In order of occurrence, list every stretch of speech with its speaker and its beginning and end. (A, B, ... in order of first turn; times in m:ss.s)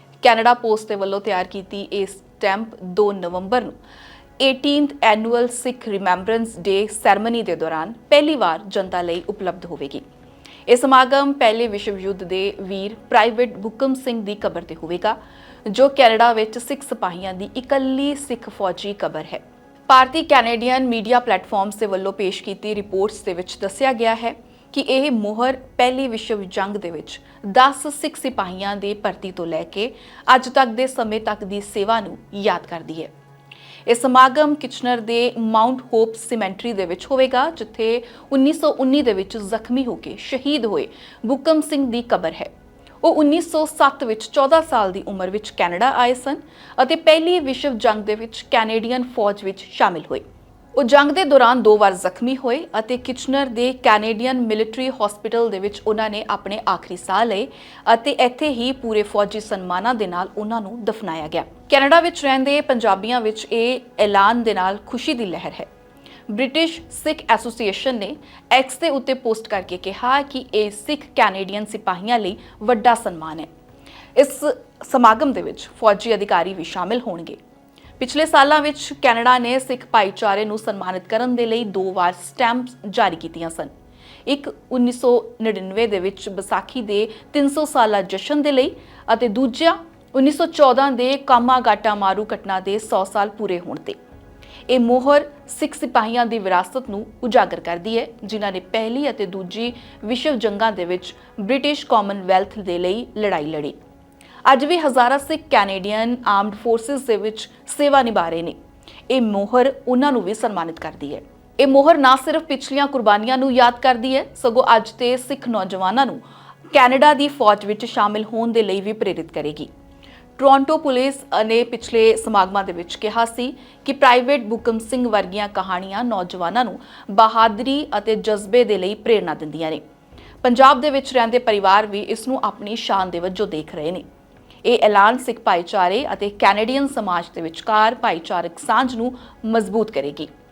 0:00.2-0:03.8 A
0:04.4-0:10.0 A
0:10.7-0:33.1 A
0:33.8-0:42.5 A
0:43.0-0:50.2 A
0:50.8-1:05.7 A
1:06.3-1:13.5 A
1:14.1-1:17.4 A
1:18.0-1:23.7 A
1:24.2-1:34.0 A
1:34.7-1:43.8 A
1:44.4-1:48.6 A
1:49.1-1:56.2 A
1:56.7-1:59.7 A
2:00.4-2:09.8 A
2:10.4-2:14.0 A
2:14.6-2:20.3 A